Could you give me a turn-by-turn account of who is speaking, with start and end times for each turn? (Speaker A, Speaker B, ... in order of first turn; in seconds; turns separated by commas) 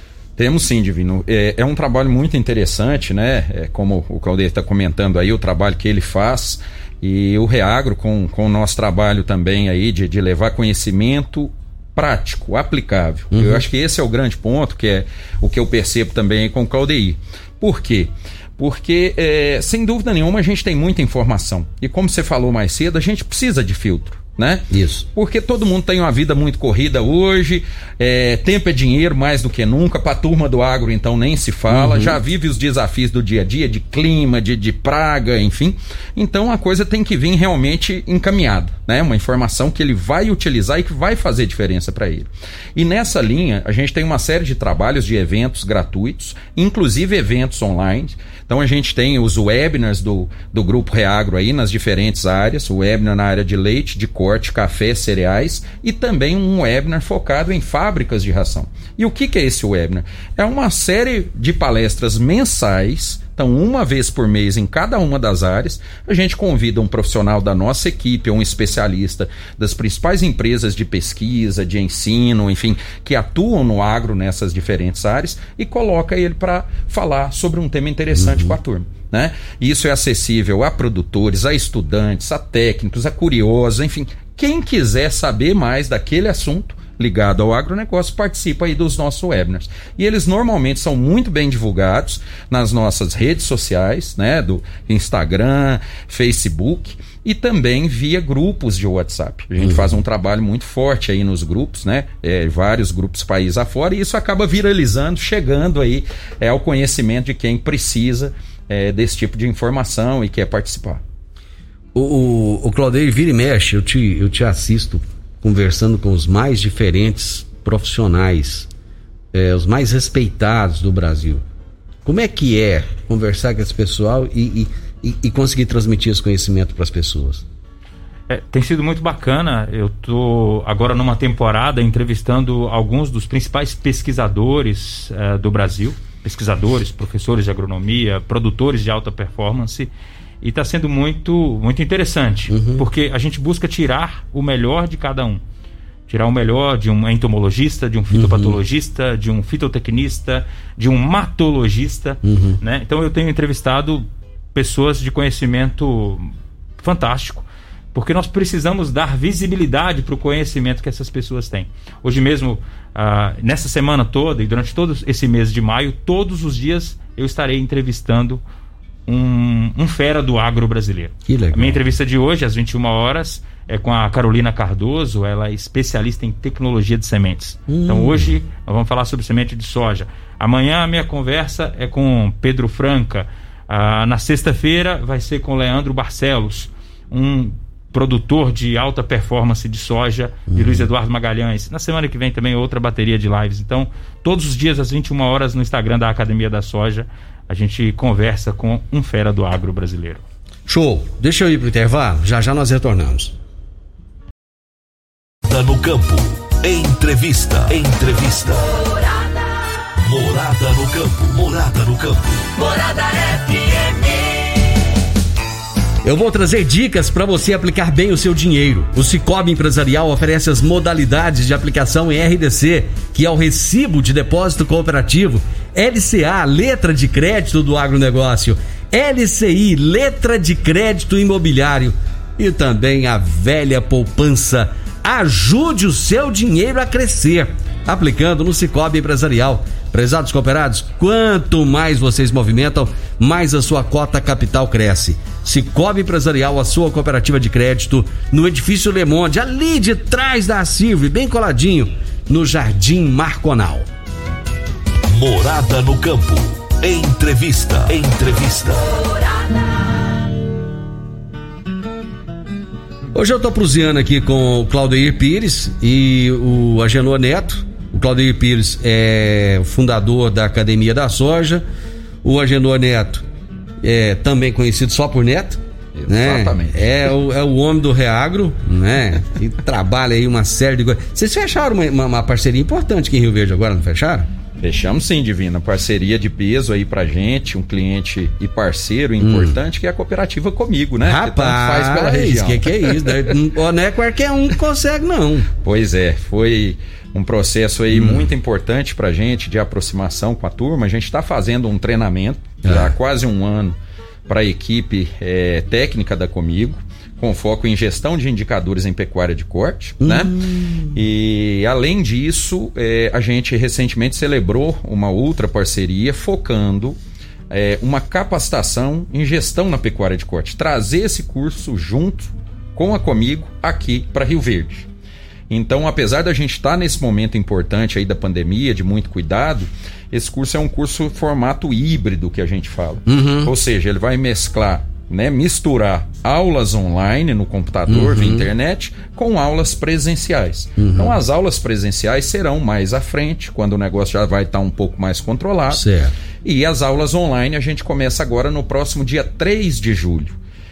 Speaker A: 0.4-111.0, Speaker B: 13.3-13.6, Speaker B: 24.7-25.1, Speaker B: 31.7-32.2, Speaker B: 78.2-78.5, Speaker B: 99.6-100.0, Speaker B: 111.9-118.7, Speaker B: 119.3-121.4, Speaker B: 122.0-127.4, Speaker C: 128.3-139.9, Speaker C: 140.4-145.4, Speaker B: 142.5-142.8, Speaker C: 146.1-168.4, Speaker B: 148.1-148.6, Speaker B: 152.2-152.6, Speaker C: 169.1-200.2, Speaker B: 171.2-171.8, Speaker B: 177.7-178.4, Speaker B: 190.5-190.9, Speaker B: 200.7-203.3, Speaker D: 205.5-208.8, Speaker D: 210.0-212.5, Speaker E: 212.6-214.7, Speaker B: 216.0-253.9, Speaker D: 255.1-258.9, Speaker B: 263.1-271.6, Speaker B: 272.2-273.2, Speaker B: 273.8-284.3, Speaker A: 275.9-277.0, Speaker A: 284.6-293.4, Speaker B: 289.2-289.6, Speaker B: 291.0-295.5, Speaker A: 295.6-303.8, Speaker B: 297.9-298.3, Speaker B: 302.6-302.9, Speaker A: 304.3-310.3, Speaker B: 310.0-311.0, Speaker A: 310.9-317.0, Speaker A: 317.5-324.9, Speaker A: 325.5-345.8, Speaker B: 333.1-333.5, Speaker B: 337.9-338.5, Speaker B: 340.8-341.2, Speaker B: 345.7-346.1, Speaker A: 346.4-350.4